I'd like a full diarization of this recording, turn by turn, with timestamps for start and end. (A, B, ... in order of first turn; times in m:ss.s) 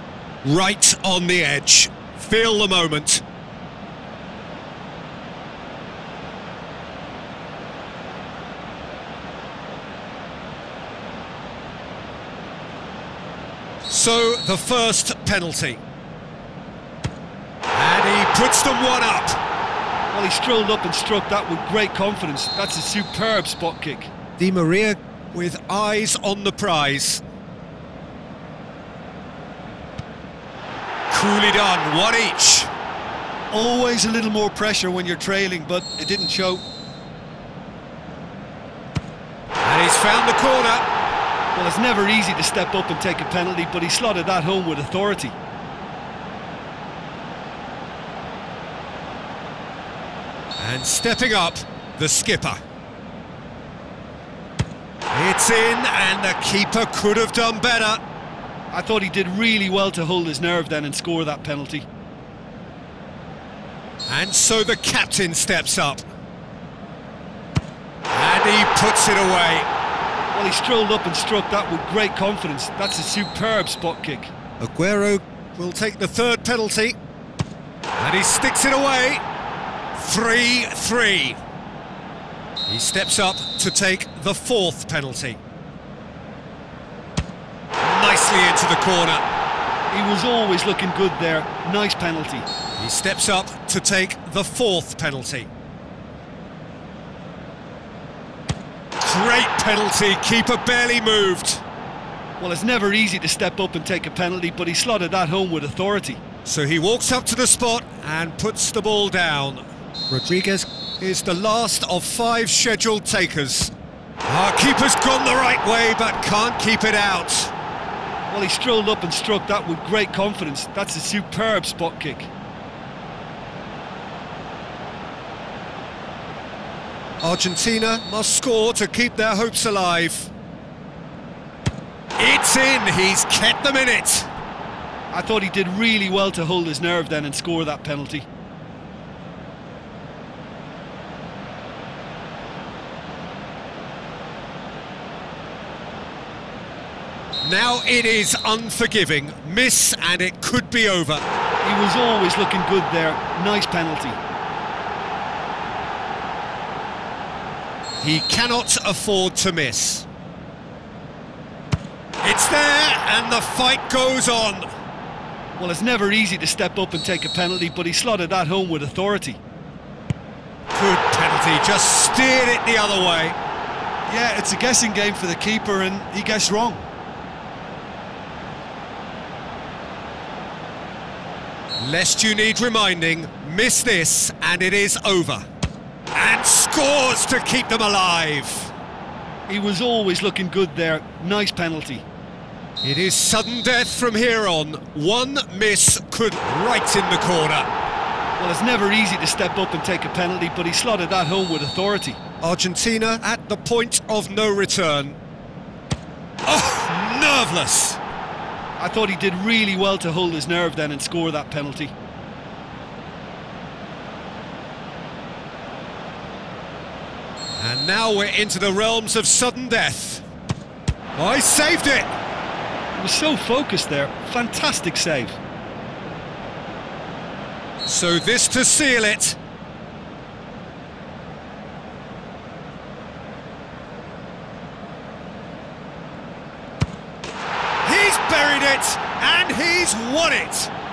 0:00.4-0:03.2 A
0:13.9-0:15.8 A
0:17.7-0:19.4 A
0:20.1-0:24.1 B
0:24.4-0:27.2 A
0:31.1-0:32.7 A
0:33.5-0:36.6 B
0:39.6-0:40.8 A
0:41.5-0:45.3 B
0:50.6-0:52.6 A
0:55.1-0:58.0 A
0:58.7-1:01.8 B
1:04.1-1:06.0 A
1:08.1-1:09.7 A
1:10.3-1:14.3 B
1:14.6-1:17.0 A
1:18.0-1:19.2 A
1:20.0-1:21.4 A
1:22.7-1:25.4 A
1:27.8-1:29.2 A
1:29.9-1:32.4 B
1:32.8-1:35.5 A
1:39.0-1:41.6 A
1:42.4-1:46.2 B
1:46.4-1:53.7 A
1:54.2-1:57.5 A
1:58.3-2:02.3 B
2:07.2-2:10.3 A
2:12.2-2:14.3 A
2:15.1-2:18.3 B
2:27.4-2:31.2 A
2:31.6-2:34.2 B
2:38.0-2:40.0 A
2:42.2-2:44.7 A
2:45.6-2:49.4 B
2:50.7-2:53.4 A
2:54.1-2:56.9 B
3:01.8-3:05.4 A
3:06.1-3:08.7 A
3:09.5-3:12.0 B
3:12.8-3:17.7 A
3:18.4-3:22.2 B
3:22.4-3:25.2 A
3:26.4-3:28.0 A
3:28.8-3:31.9 B
3:37.6-3:40.2 A
3:41.1-3:42.1 A
3:43.0-3:45.4 B
3:47.8-3:49.4 A
3:57.8-4:00.7 A